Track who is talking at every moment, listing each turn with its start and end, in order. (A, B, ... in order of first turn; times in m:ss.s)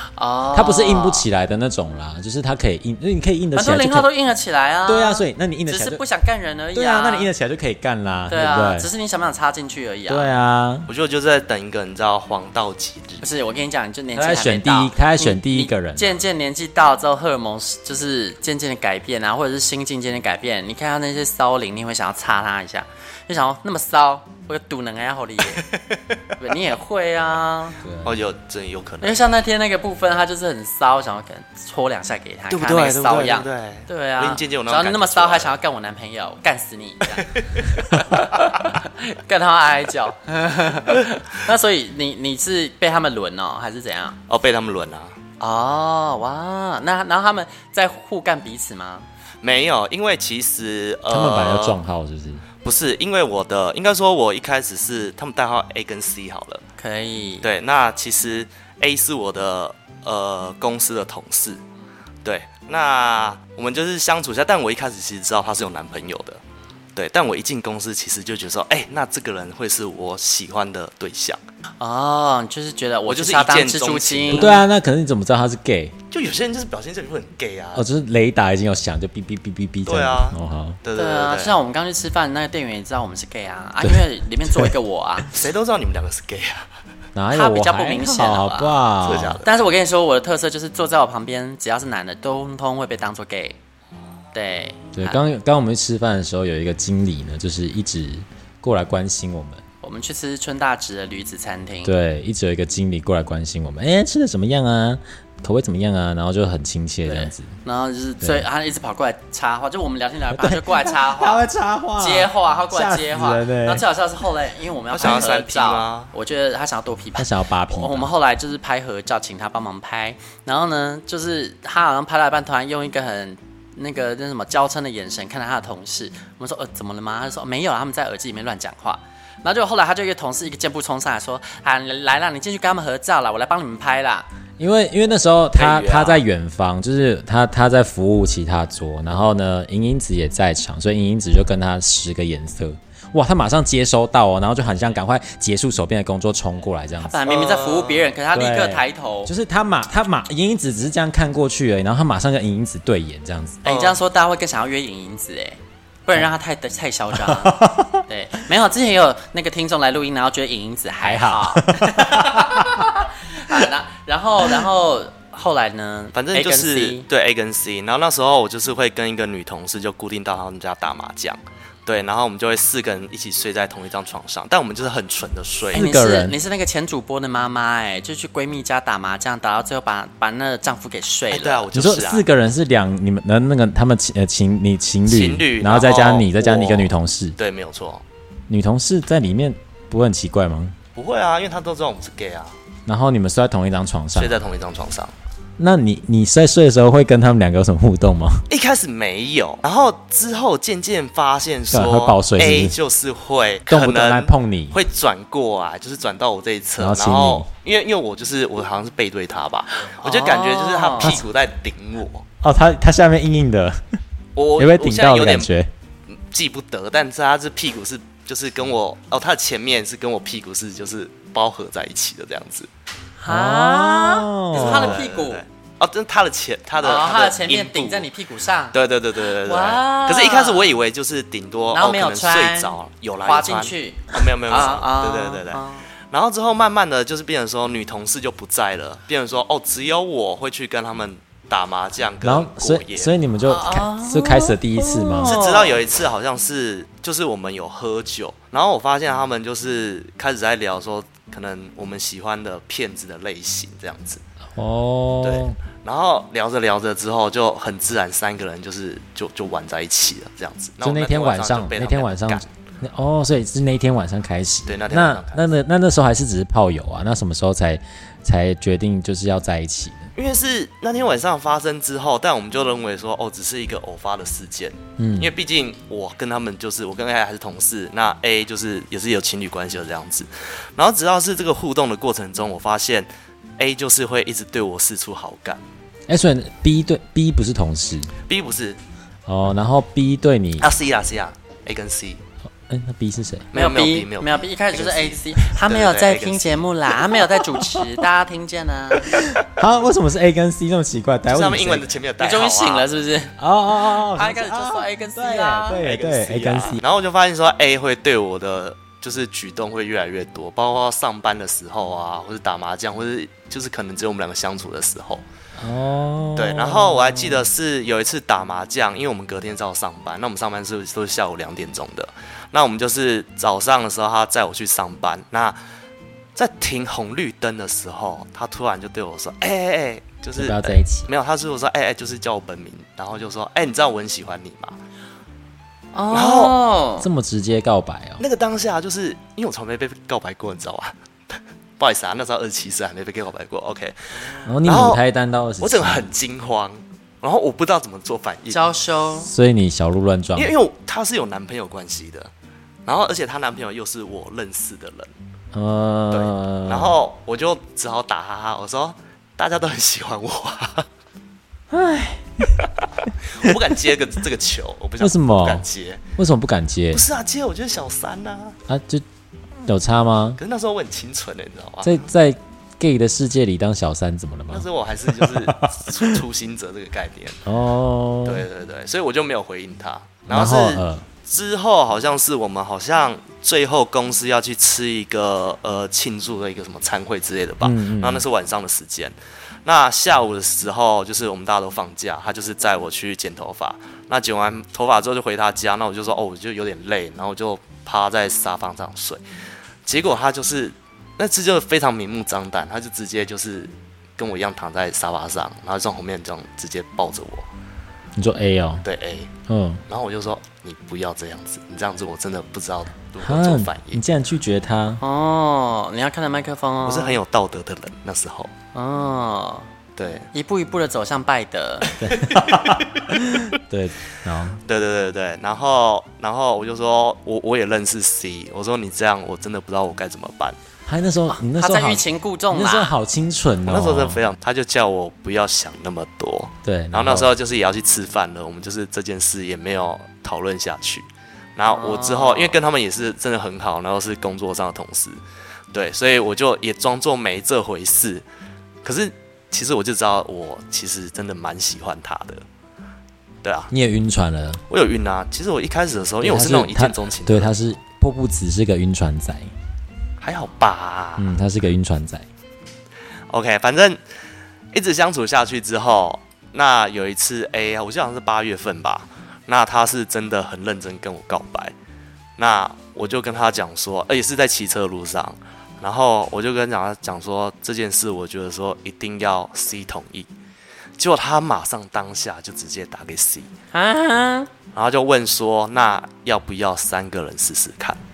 0:00.2-0:01.3 A
0:00.5-0:04.1 B
0:03.6-0:07.3 A
0:04.9-0:06.0 B
0:06.8-0:08.9 B
0:08.3-0:10.3 A
0:10.1-0:10.9 B
0:10.9-0:13.2 C
0:13.2-0:25.7 A
0:14.2-0:16.1 B
0:25.6-0:26.0 C
0:26.4-0:27.8 A
0:27.8-0:28.2 B
0:28.0-0:29.2 C
0:29.0-0:44.2 A
0:32.5-0:35.6 C
0:37.3-0:38.0 C
0:44.3-0:45.2 C
0:45.4-0:49.1 A
0:49.4-0:51.8 C
0:51.1-0:52.4 B
0:52.6-0:56.6 C
0:56.8-0:57.5 A
0:57.4-1:01.6 C
1:02.2-1:06.4 C
1:07.0-1:11.4 C
1:11.8-1:14.6 A
1:13.1-1:14.6 C
1:14.3-1:16.0 B
1:16.1-1:17.9 C
1:17.8-1:20.8 B
1:19.8-1:21.6 C
1:21.0-1:25.3 A
1:23.8-1:24.7 B
1:25.3-1:26.7 C
1:27.2-1:29.4 B
1:27.3-1:28.9 A
1:29.0-1:29.5 C
1:29.4-1:33.6 A
1:34.3-1:35.2 A
1:35.0-1:39.6 B
1:39.8-1:41.9 A
1:41.8-1:47.6 B
1:47.0-1:51.4 A
1:48.2-1:48.5 B
1:50.3-1:53.8 B
1:52.0-2:14.3 A
1:54.9-1:56.1 C
1:57.2-1:58.1 B
2:14.6-2:27.2 B
2:15.6-2:16.2 C
2:27.0-2:29.3 A
2:27.3-2:28.1 C
2:28.3-2:33.6 B
2:33.6-2:47.1 A
2:33.6-2:34.0 C
2:37.2-2:38.0 B
2:41.0-2:42.9 B
2:46.2-2:55.9 C
2:55.7-2:56.4 B
2:55.7-3:01.7 A
3:01.3-3:02.3 C
3:01.7-3:07.4 B
3:05.1-3:08.0 C
3:08.5-3:10.8 B
3:11.0-3:12.5 C
3:12.9-3:14.4 B
3:14.2-3:15.1 C
3:15.6-3:18.4 B
3:18.5-3:32.2 C
3:21.7-3:22.8 B
3:23.7-3:24.8 B
3:26.8-3:27.5 B
3:30.0-3:31.2 A
3:32.4-3:34.0 B
3:34.4-3:35.5 C
3:34.6-3:35.7 B
3:36.1-3:42.7 C
3:43.2-3:45.4 A
3:43.3-3:45.0 B
3:44.5-3:48.1 C
3:46.8-3:48.8 A
3:48.7-4:03.1 C
3:49.4-3:50.7 A
3:51.7-3:52.7 A
3:53.2-3:55.9 A
4:02.2-4:05.4 B
4:03.5-4:05.8 A
4:05.2-4:14.2 C
4:14.6-4:15.6 B
4:15.2-4:22.5 C
4:20.8-4:30.1 B
4:24.7-4:25.5 C
4:30.2-4:45.6 C
4:35.0-4:35.3 B
4:46.1-4:48.1 B
4:48.3-4:48.8 C
4:49.3-4:50.7 B
4:50.6-4:52.2 C
4:52.7-4:53.5 B
4:53.5-4:57.3 C
4:53.6-4:59.1 A
4:59.2-5:01.9 B
5:01.3-5:02.9 C
5:02.2-5:05.8 A
5:03.4-5:06.8 B
5:05.8-5:15.2 C
5:15.6-5:17.5 B
5:16.4-5:25.6 C
5:26.4-5:34.8 C
5:30.4-5:31.1 B
5:35.9-5:37.1 A
5:36.1-5:36.6 C
5:37.0-5:38.2 B
5:38.2-5:45.0 C
5:44.4-5:46.1 B
5:45.6-5:48.7 C
5:48.5-5:49.3 A
5:49.2-5:50.5 B
5:50.4-5:52.3 C
5:52.9-5:55.1 C
5:55.5-5:57.0 B
5:56.1-6:00.9 C
6:01.7-6:02.6 B
6:02.6-6:06.0 C
6:05.0-6:07.0 B
6:06.9-6:08.6 C
6:08.7-6:09.0 B
6:09.6-6:10.4 B
6:10.4-6:12.0 C
6:11.8-6:16.2 B
6:14.5-6:17.4 C
6:17.4-6:18.5 B
6:18.2-6:29.1 C
6:20.3-6:21.1 B
6:27.6-6:28.3 B
6:29.6-6:39.2 C
6:39.9-6:47.5 C
6:48.2-6:48.8 B
6:48.8-6:49.3 C
6:49.5-6:49.8 B
6:49.9-6:54.0 C
6:53.2-6:55.0 B
6:55.0-6:57.2 A
6:56.8-6:58.5 C
6:58.8-6:59.7 A
7:00.0-7:00.3 C
7:00.3-7:01.9 A
7:02.0-7:04.6 B
7:02.0-7:03.4 C
7:04.6-7:10.6 C
7:10.9-7:14.2 B
7:11.3-7:13.0 A
7:13.7-7:25.2 C
7:16.6-7:17.3 B
7:21.7-7:22.6 A
7:25.7-7:28.2 C
7:28.8-7:32.4 C
7:33.4-7:33.7 C
7:33.7-7:34.6 B
7:34.7-7:37.6 C
7:36.2-7:39.5 B
7:40.2-7:41.3 C
7:41.2-7:42.3 B
7:43.3-7:44.0 C
7:44.7-7:51.8 C
7:52.4-8:00.3 C
8:01.0-8:03.5 C
8:03.7-8:04.5 A
8:04.7-8:08.0 C